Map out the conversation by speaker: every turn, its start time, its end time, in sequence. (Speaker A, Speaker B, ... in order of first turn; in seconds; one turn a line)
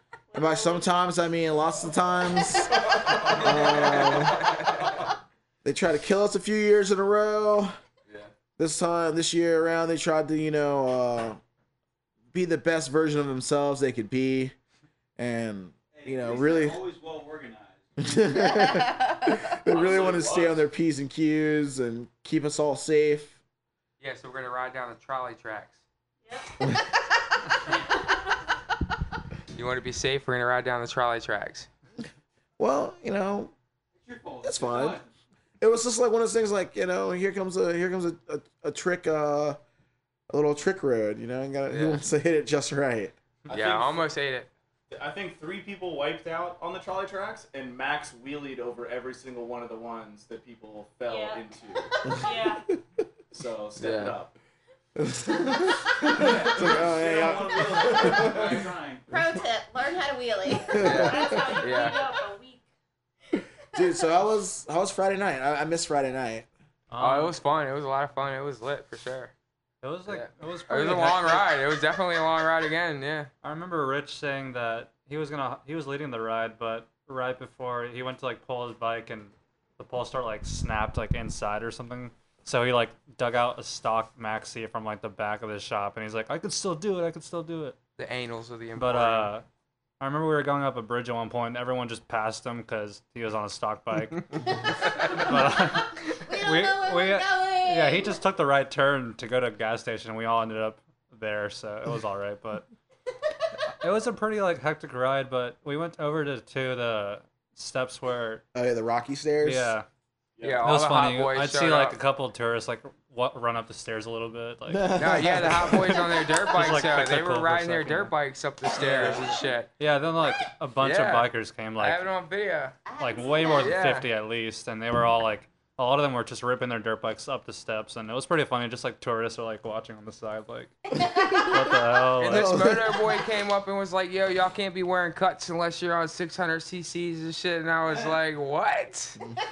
Speaker A: 0.3-0.9
Speaker B: 0.3-4.5
Speaker C: 3.1-4.9
Speaker B: 5.6-7.7
Speaker B: 8.6-11.4
Speaker B: 12.3-14.5
Speaker B: 15.2-16.8
Speaker D: 15.9-18.2
Speaker B: 18.0-23.4
Speaker E: 18.3-19.3
Speaker D: 19.7-20.5
Speaker F: 19.8-20.5
Speaker C: 24.0-25.8
Speaker A: 26.2-26.7
Speaker C: 29.5-31.7
Speaker B: 32.6-33.5
Speaker D: 33.9-35.1
Speaker B: 34.4-35.0
Speaker B: 35.6-39.6
Speaker B: 40.3-43.1
Speaker C: 41.7-42.0
Speaker F: 43.5-44.1
Speaker C: 43.5-44.5
Speaker F: 44.9-51.9
Speaker A: 51.0-51.5
Speaker A: 52.1-52.6
Speaker F: 53.3-54.3
Speaker C: 53.8-54.2
Speaker B: 54.9-58.6
Speaker F: 56.0-56.9
Speaker D: 56.1-59.0
Speaker E: 59.1-61.0
Speaker B: 60.7-61.5
Speaker C: 60.7-62.0
Speaker A: 61.0-62.6
Speaker B: 63.7-66.5
Speaker G: 66.9-67.3
Speaker C: 67.0-69.3
Speaker G: 69.8-71.5
Speaker C: 70.0-73.3
Speaker G: 73.4-87.8
Speaker C: 88.0-89.3
Speaker G: 88.7-89.5
Speaker G: 90.0-94.4
Speaker G: 95.0-102.7
Speaker E: 96.2-98.2
Speaker G: 103.8-108.4
Speaker B: 108.5-109.7
Speaker G: 109.4-109.8
Speaker F: 110.4-110.7
Speaker C: 110.4-112.0
Speaker G: 110.6-115.2
Speaker B: 114.7-116.0
Speaker C: 114.9-119.7
Speaker G: 115.9-118.1
Speaker G: 118.8-119.2
Speaker G: 119.8-122.1
Speaker C: 120.8-122.8
Speaker E: 122.8-123.9
Speaker G: 122.9-130.8
Speaker C: 123.6-124.1
Speaker B: 130.9-131.6
Speaker G: 131.4-132.7
Speaker C: 132.1-139.2
Speaker B: 132.2-133.1